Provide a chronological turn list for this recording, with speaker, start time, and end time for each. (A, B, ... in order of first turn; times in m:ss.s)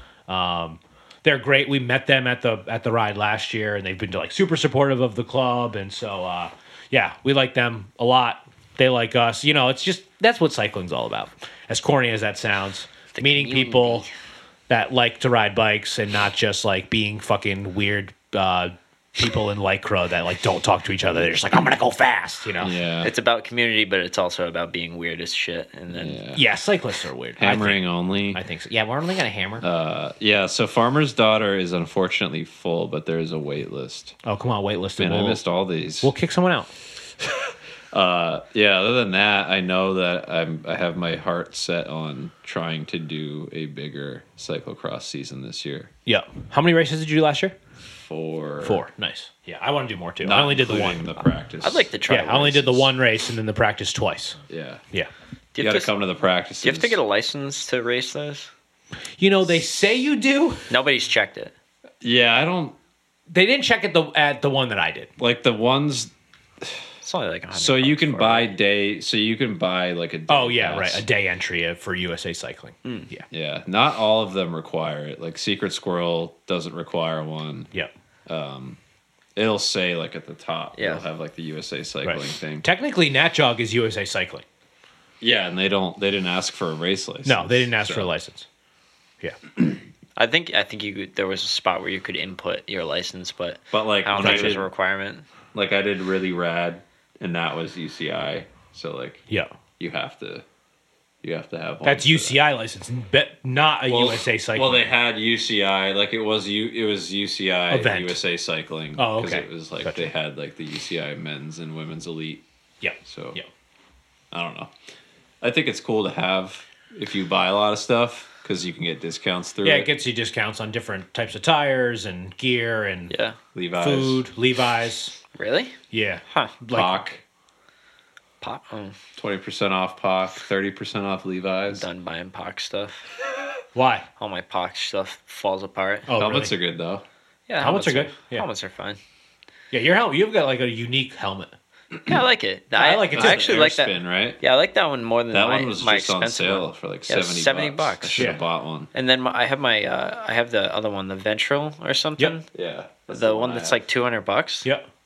0:00.3-0:14.0 A
0:13.1-0:14.1 B
0:14.7-0:22.7 A
0:22.6-0:23.1 C
0:23.0-0:26.2 B
0:25.9-0:26.4 C
0:26.3-0:29.6 A
0:27.4-0:28.4 C
0:29.6-0:34.1 C
0:34.2-0:35.4 A
0:35.0-0:36.1 C
0:36.0-0:36.7 A
0:37.2-0:45.9 C
0:46.0-0:47.5 A
0:48.0-0:48.8 C
0:48.6-0:51.1 A
0:50.2-0:51.9 C
0:51.6-0:52.9 B
0:52.1-0:54.4 A
0:54.5-0:54.8 C
0:55.5-0:55.9 B
0:55.6-0:57.0 C
0:56.6-0:58.5 B
0:59.2-1:00.6 A
1:00.7-1:01.5 B
1:02.0-1:02.8 C
1:03.3-1:05.1 A
1:05.2-1:06.1 C
1:07.0-1:08.6 B
1:07.5-1:11.0 C
1:10.3-1:13.2 A
1:13.3-1:17.7 C
1:18.3-1:18.8 C
1:19.3-1:22.6 C
1:20.8-1:21.0 B
1:22.0-1:24.4 A
1:25.2-1:28.1 C
1:27.2-1:28.4 A
1:30.2-1:35.2 B
1:33.7-1:34.6 C
1:34.2-1:34.6 A
1:35.5-1:39.2 C
1:39.8-1:40.4 C
1:41.2-1:42.4 C
1:41.8-1:44.9 A
1:43.9-1:52.4 C
1:47.7-1:48.2 A
1:49.0-1:50.1 A
1:52.8-1:53.5 A
1:53.0-1:53.4 C
1:54.3-1:54.7 C
1:55.4-1:59.9 C
1:59.6-2:03.1 A
2:03.1-2:03.4 B
2:03.5-2:04.2 C
2:03.8-2:05.2 A
2:05.3-2:05.8 B
2:05.9-2:07.0 A
2:06.7-2:07.2 C
2:08.4-2:09.0 B
2:09.2-2:11.8 C
2:11.7-2:13.1 B
2:13.7-2:14.1 A
2:14.2-2:16.1 B
2:16.1-2:16.5 A
2:16.2-2:17.0 C
2:17.5-2:19.0 B
2:17.6-2:18.4 A
2:19.7-2:21.5 A
2:22.0-2:28.3 B
2:22.7-2:23.7 A
2:23.1-2:24.4 C
2:25.3-2:28.9 C
2:28.9-2:32.4 B
2:32.5-2:33.8 C
2:33.1-2:34.7 B